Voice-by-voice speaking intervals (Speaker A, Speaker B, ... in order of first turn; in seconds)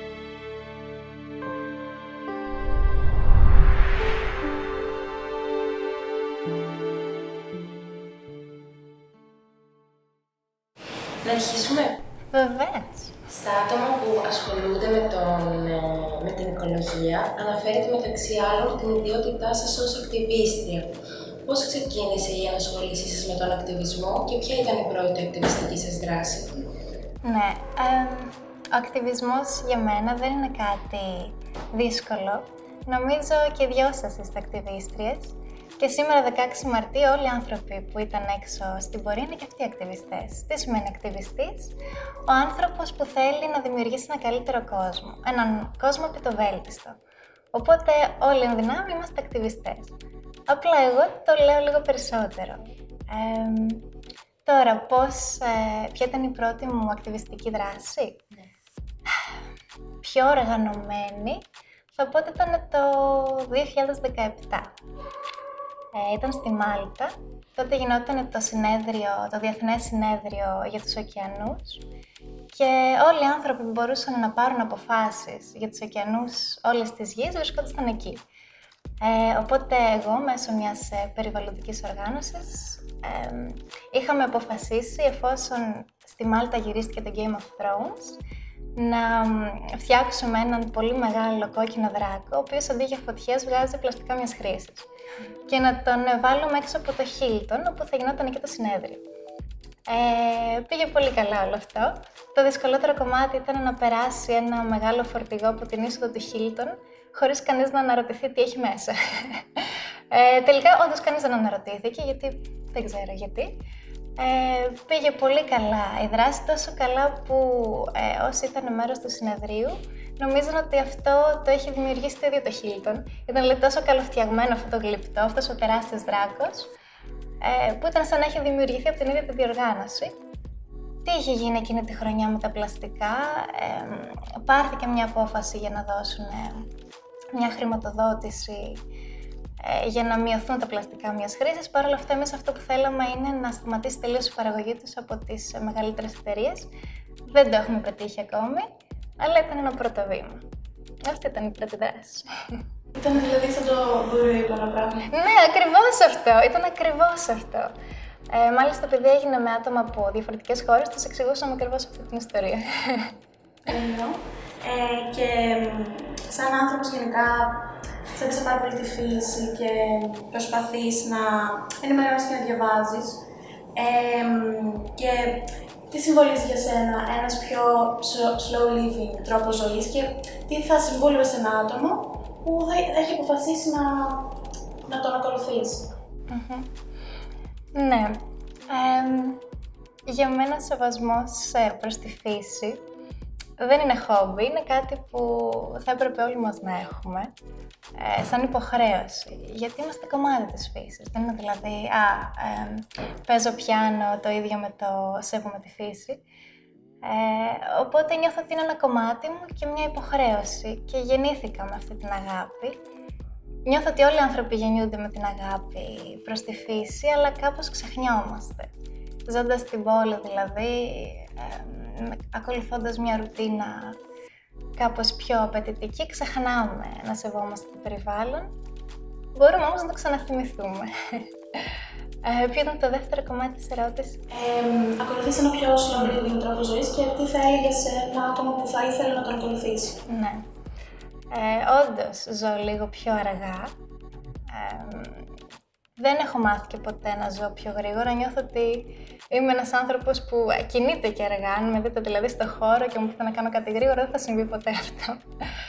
Speaker A: 11.2-12.0, 13.3-20.9, 21.4-26.6
Speaker B: 12.3-13.2, 27.2-41.8, 42.3-47.0, 47.5-49.9, 50.5-53.9, 54.4-58.2, 60.0-64.7, 65.9-71.8, 72.5-78.2, 79.0-88.2, 88.8-94.9, 95.5-99.0, 99.9-113.6, 114.2-126.7, 127.4-130.1, 131.0-136.7, 137.3-138.8, 139.6-146.7, 147.3-148.7, 149.2-150.4, 151.0-152.3, 155.1-157.7, 158.3-163.2, 186.3-186.7, 187.7-189.4, 190.1-192.8, 193.6-197.3, 197.9-206.2, 207.0-212.8, 213.7-218.7, 219.2-224.0, 224.8-228.5, 229.3-231.2, 232.2-234.2, 240.1-240.4, 241.3-243.7, 244.5-245.3, 246.0-255.2
Speaker C: 152.9-155.1, 163.7-173.2, 173.7-185.9, 234.3-240.0